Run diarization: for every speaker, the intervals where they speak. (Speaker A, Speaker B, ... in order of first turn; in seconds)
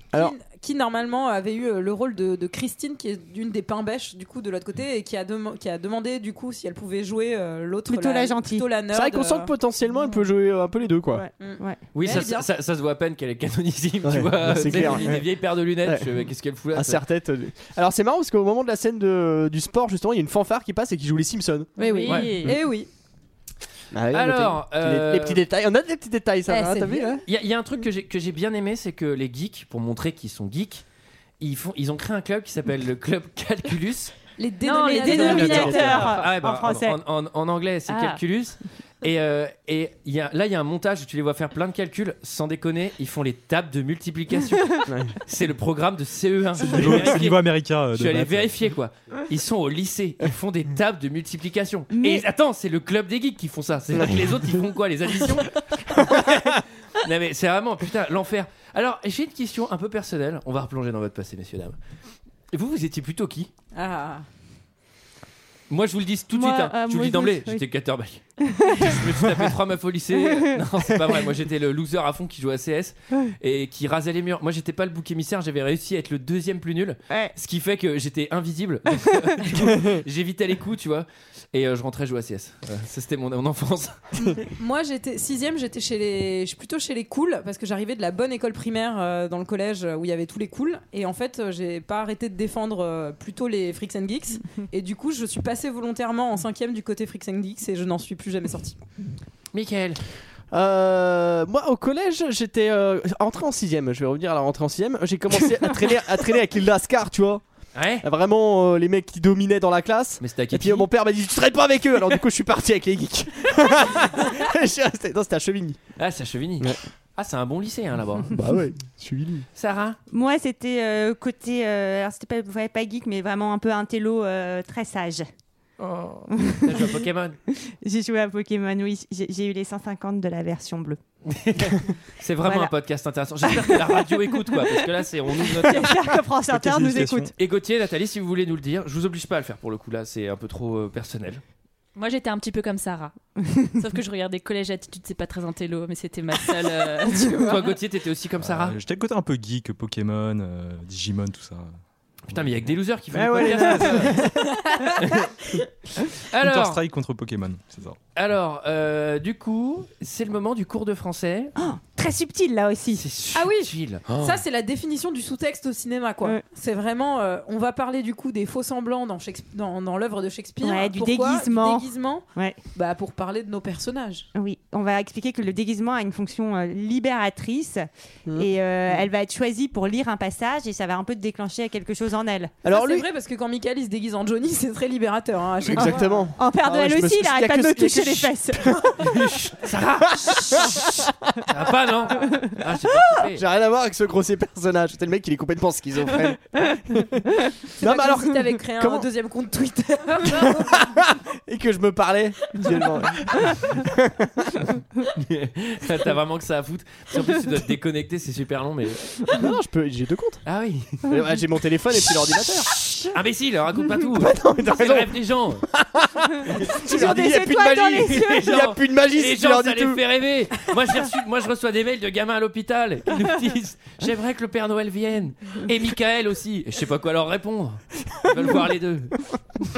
Speaker A: 0.1-9.5, 11.4-12.5, 21.8-22.9, 26.5-27.2, 34.4-36.1, 63.7-64.2, 84.2-98.8, 163.3-174.3, 182.7-186.2, 197.8-200.8
Speaker B: 7.9-8.7, 11.1-11.8, 34.6-37.0, 51.9-52.2, 66.3-67.6, 68.4-69.3, 70.2-70.6, 120.1-125.3, 126.3-127.0, 127.7-131.0, 132.4-132.7, 133.4-134.0, 135.4-137.3, 161.6-163.0, 170.6-172.6, 174.3-182.6, 185.8-188.8, 216.7-218.4
Speaker C: 8.9-11.3, 14.0-15.3, 15.8-16.1, 16.7-21.7, 23.9-27.2, 35.2-36.1, 44.9-45.1, 55.9-56.4, 100.5-107.4, 108.0-115.8, 118.3-119.5, 153.1-154.3, 178.2-179.1, 182.6-183.0, 185.6-188.9, 190.2-191.1, 193.2-197.2, 197.8-199.1, 200.3-204.7, 209.3-210.4, 211.1-212.7, 214.1-220.0
Speaker D: 11.9-17.0, 22.0-22.4, 24.1-25.4, 27.2-30.8, 31.4-34.1, 35.1-61.8, 62.5-63.5, 65.7-84.0, 99.5-100.0, 107.7-108.0, 110.2-110.9, 116.0-118.3, 119.5-120.0, 125.8-127.4, 131.3-135.9, 137.4-141.4, 147.3-148.8, 152.3-154.2, 154.9-155.2, 156.2-156.8, 158.1-161.5, 162.9-164.4, 189.0-190.9, 191.5-193.4, 205.2-209.2, 210.4-211.1, 212.8-215.6, 217.9-229.2
Speaker E: 21.8-22.6, 34.6-35.2, 37.9-38.2, 141.9-143.1, 143.7-147.4
Speaker F: 46.6-48.6, 136.5-137.3, 148.4-151.8, 152.3-152.7, 156.4-158.0